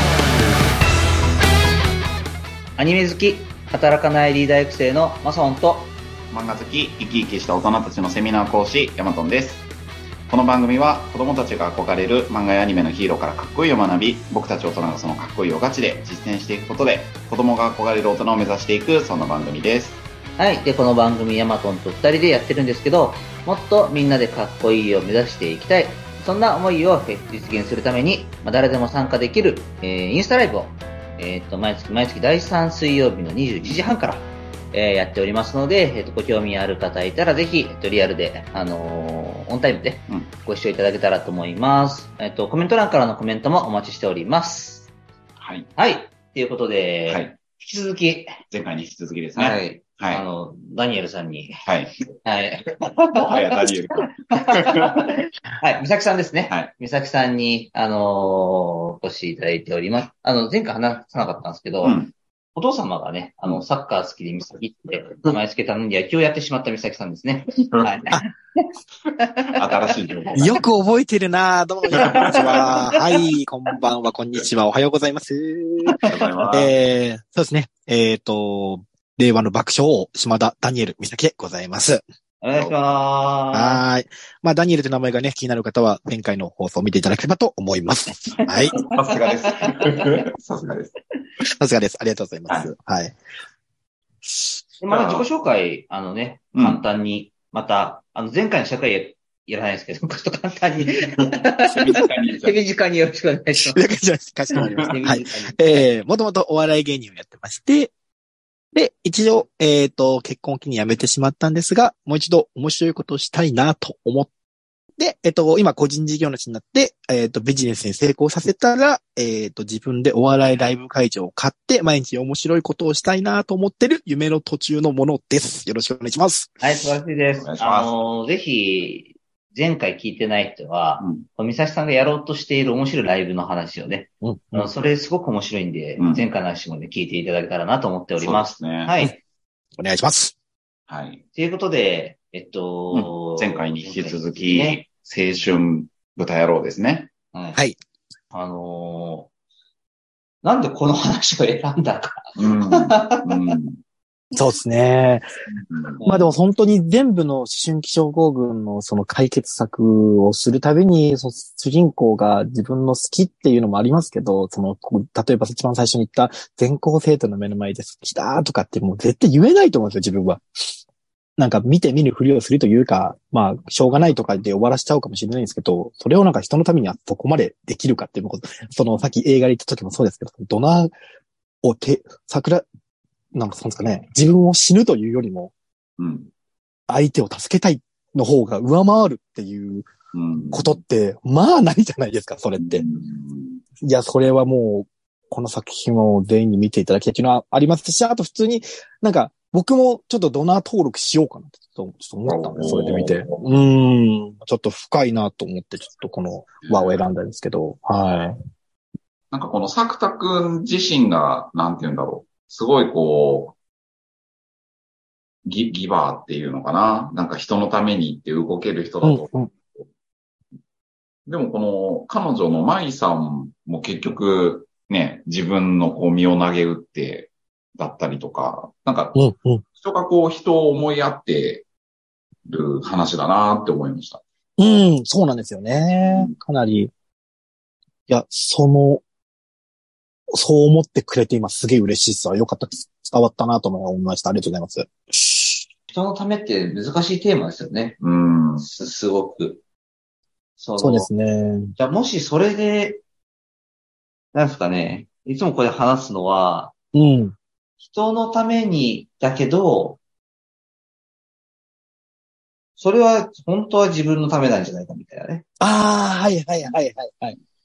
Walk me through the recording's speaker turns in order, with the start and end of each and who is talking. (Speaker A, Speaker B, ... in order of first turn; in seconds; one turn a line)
Speaker A: 2.8-6.0
Speaker B: 6.3-9.7
Speaker B: 10.3-20.0
Speaker A: 20.4-44.9
Speaker B: 45.4-45.7
Speaker A: 45.8-48.4
Speaker B: 47.1-47.4
Speaker B: 48.5-50.2
Speaker A: 49.4-51.6
Speaker B: 51.6-52.1
Speaker A: 52.2-53.7
Speaker B: 53.3-54.9
Speaker A: 54.3-62.0
Speaker B: 61.8-62.1
Speaker A: 62.6-68.7
Speaker B: 67.6-68.2
Speaker A: 69.2-69.9
Speaker B: 69.5-70.6
Speaker C: 70.3-76.0
Speaker B: 71.9-72.9
Speaker A: 72.0-72.9
Speaker A: 75.9-76.5
Speaker B: 76.0-76.7
Speaker C: 76.5-82.0
Speaker A: 82.4-83.8
Speaker B: 82.5-82.8
Speaker C: 83.5-88.8
Speaker A: 88.7-90.1
Speaker B: 88.8-91.0
Speaker C: 91.6-93.2
Speaker B: 92.5-92.7
Speaker C: 94.2-94.6
Speaker A: 94.8-103.8
Speaker B: 94.9-95.3
Speaker B: 96.5-96.8
Speaker B: 101.7-102.6
Speaker C: 103.6-107.9
Speaker A: 104.5-105.8
Speaker C: 108.7-114.3
Speaker C: 115.0-126.6
Speaker A: 126.6-139.2
Speaker B: 127.4-127.9
Speaker B: 131.0-131.2
Speaker C: 134.2-134.7
Speaker B: 136.0-136.3
Speaker B: 138.2-139.0
Speaker C: 139.8-140.3
Speaker B: 140.9-141.2
Speaker A: 141.3-144.8
Speaker B: 142.9-147.1
Speaker A: 147.3-147.6
Speaker A: 148.3-149.3
Speaker A: 150.4-153.6
Speaker B: 152.4-153.8
Speaker C: 154.3-155.2
Speaker B: 155.7-156.0
Speaker A: 156.0-156.3
Speaker C: 156.1-170.4
Speaker C: 171.4-180.9
Speaker C: 181.6-182.7
Speaker C: 183.3-185.5
Speaker B: 186.0-186.3
Speaker C: 186.9-189.9
Speaker B: 190.1-190.8
Speaker C: 190.5-192.8
Speaker B: 192.6-193.6
Speaker C: 193.8-208.4
Speaker B: 202.3-203.5
Speaker B: 206.6-207.0
Speaker B: 209.3-213.6
Speaker B: 215.4-219.9
Speaker C: 219.0-219.5
Speaker B: 221.3-229.2
Speaker C: 229.2-229.6
Speaker B: 229.8-231.7
Speaker B: 232.5-234.2
Speaker C: 234.6-236.9
Speaker B: 236.0-236.3
Speaker C: 238.1-239.0
Speaker C: 240.3-245.6
Speaker A: 245.9-248.0
Speaker B: 248.0-248.7
Speaker A: 248.6-249.6
Speaker A: 250.6-251.1
Speaker C: 250.8-251.7
Speaker A: 251.8-253.0
Speaker A: 254.3-256.7
Speaker C: 256.9-257.4
Speaker A: 257.8-260.0
Speaker A: 262.8-265.4
Speaker C: 265.6-267.4